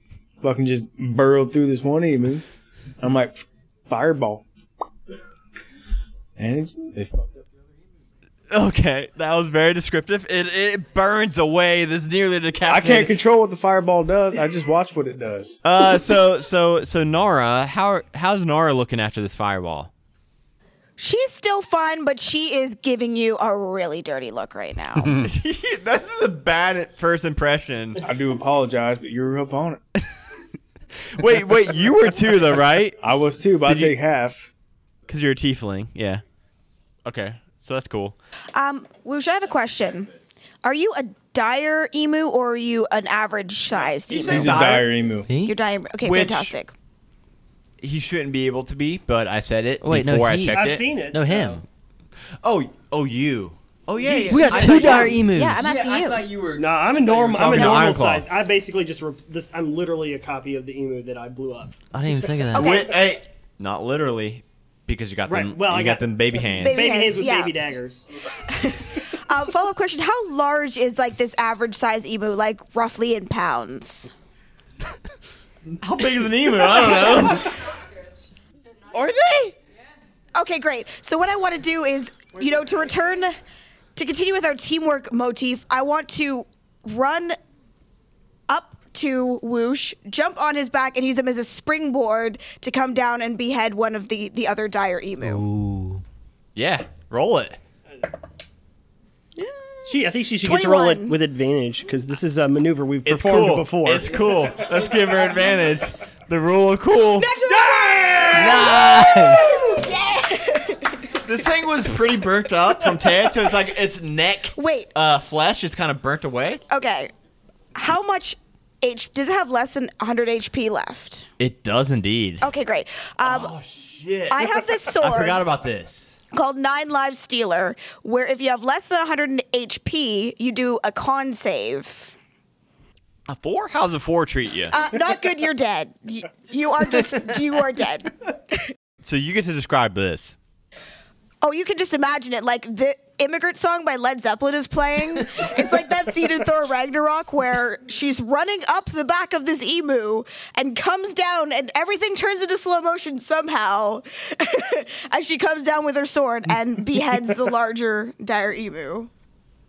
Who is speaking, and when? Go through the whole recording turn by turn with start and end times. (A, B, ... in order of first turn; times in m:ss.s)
0:00.4-0:02.4 A
0:03.0-0:04.4 A
0:06.4-0:07.4 A
0:08.5-0:13.2 B
0:12.7-0:15.6 A
0:15.6-0:19.9 B
0:21.0-0:25.2 C
0:25.2-0:28.0 B
0:28.0-0:29.8 A
0:31.1-0:34.0 B
0:33.0-0:34.5 A
0:35.1-0:36.2 B
0:37.0-0:38.2 B
0:38.5-0:40.1 C
0:40.6-0:44.7 C
0:44.1-0:44.9 B
0:44.3-0:45.3 A
0:45.3-0:45.6 D
0:45.4-0:46.7 C
0:46.0-0:46.6 B
0:47.8-0:50.9 B
0:49.8-0:51.6 D
0:50.5-0:51.6 E
0:52.4-0:58.2 B
0:54.0-0:55.0 E
0:54.3-0:55.6 D
0:54.6-0:56.2 C
0:56.6-1:01.8 E
1:01.9-1:02.7 D
1:02.5-1:03.0 C
1:02.6-1:07.0 B
1:05.3-1:06.1 E
1:06.5-1:07.6 C
1:06.7-1:08.0 E
1:08.5-1:14.1 C
1:15.8-1:17.6 B
1:18.9-1:19.6 B
1:20.4-1:23.4 C
1:24.0-1:27.4 C
1:28.5-1:35.4 C
1:35.2-1:36.0 D
1:36.6-1:37.6 B
1:39.4-1:41.2 C
1:39.9-1:44.1 E
1:43.0-1:49.7 B
1:47.2-1:51.1 C
1:48.3-1:49.5 D
1:51.2-1:56.6 B
1:54.6-1:54.9 C
1:56.7-1:57.1 C
1:57.8-2:01.3 C
2:01.4-2:02.5 B
2:02.4-2:03.5 C
2:03.2-2:06.2 B
2:04.3-2:05.4 C
2:06.3-2:12.1 C
2:13.3-2:14.8 B
2:14.7-2:18.7 C
2:19.0-2:20.4 B
2:21.4-2:39.1 C